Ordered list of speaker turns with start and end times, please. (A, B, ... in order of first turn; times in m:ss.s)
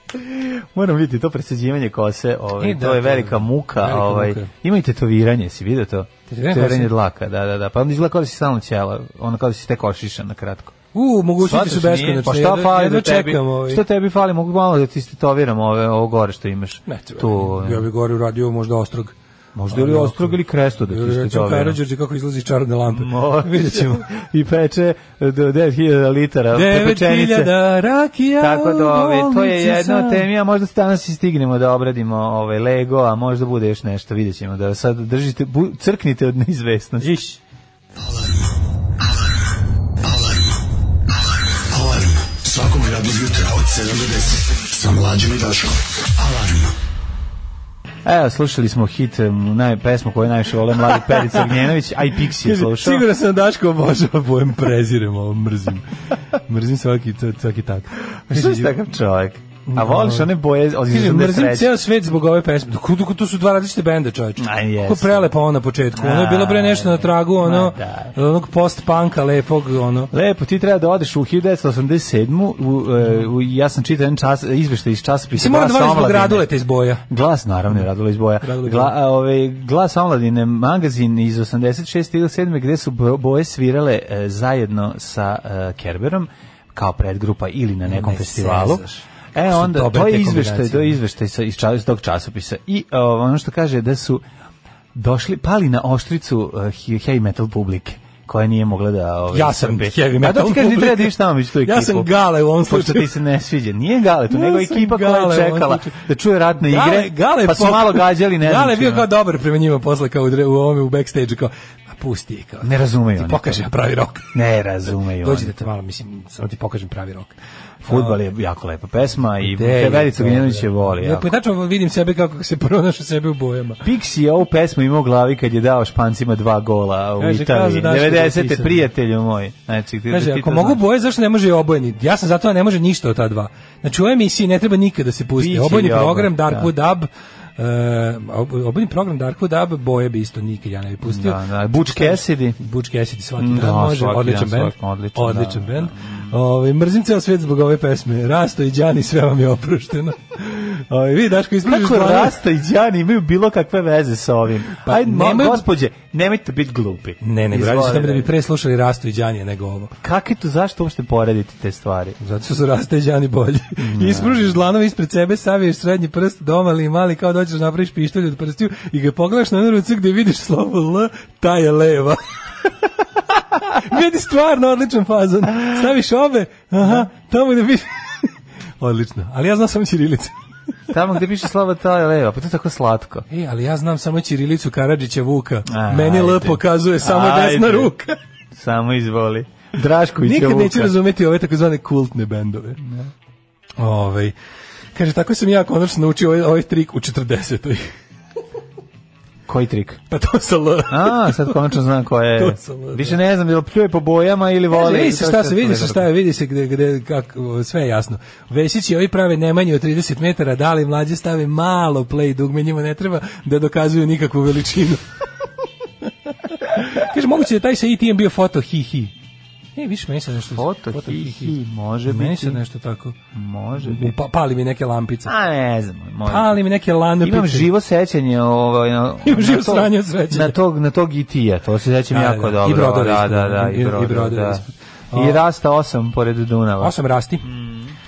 0:00.1-0:10.8 A
0:02.6-0:04.5 B
0:06.3-0:06.9 B
0:10.9-0:13.8 B
0:11.4-0:17.9 A
0:16.9-0:19.2 B
0:19.6-0:21.8 A
0:19.7-0:24.1 B
0:22.9-0:27.6 A
0:26.5-0:30.3 B
0:28.4-0:37.2 A
0:37.0-0:37.4 B
0:38.0-0:46.8 C
0:48.0-0:53.1 A
0:52.3-0:58.7 B
0:58.3-1:01.8 A
0:59.7-1:00.3 B
1:00.9-1:10.1 B
1:04.4-1:05.3 A
1:06.0-1:08.1 A
1:10.1-1:16.5 A
1:15.4-1:17.0 B
1:17.1-1:28.8 A
1:18.4-1:19.0 B
1:27.9-1:31.0 B
1:29.4-1:34.2 A
1:34.9-1:42.1 A
1:39.3-1:43.1 B
1:42.7-1:49.1 A
1:44.3-1:46.0 B
1:46.6-1:54.4 B
1:52.6-1:53.6 A
1:54.3-1:55.7 A
1:54.9-1:58.2 B
1:57.8-2:01.3 A
1:59.4-2:03.8 B
2:03.8-2:10.8 A
2:07.2-2:08.9 B
2:10.1-2:32.4 B
2:15.4-2:16.7 A
2:21.0-2:22.6 A
2:23.4-2:26.4 A
2:31.7-2:38.3 A
2:34.8-2:35.6 B
2:37.2-2:39.9 B
2:40.0-2:42.2 A
2:42.2-2:52.2 B
2:43.8-2:44.6 A
2:53.4-3:00.3 B
2:56.8-2:57.1 A
3:00.9-3:03.3 A
3:03.3-3:08.2 B
3:05.7-3:07.9 A
3:08.5-3:11.0 A
3:10.2-3:12.8 B
3:12.8-3:13.1 A
3:13.8-3:14.4 B
3:15.0-3:17.9 B
3:19.5-3:20.0 A
3:20.1-3:21.6 B
3:20.9-3:26.1 A
3:22.4-3:23.2 B
3:24.7-3:35.0 B
3:36.5-3:39.1 B
3:39.8-3:41.6 B
3:40.5-3:42.6 A
3:42.1-3:43.2 B
3:43.3-3:44.1 A
3:43.8-3:45.3 B
3:45.2-3:46.6 A
3:46.3-3:47.7 B
3:47.2-3:57.9 A
3:49.2-3:50.6 B
3:52.1-3:55.4 B
3:56.8-3:57.5 B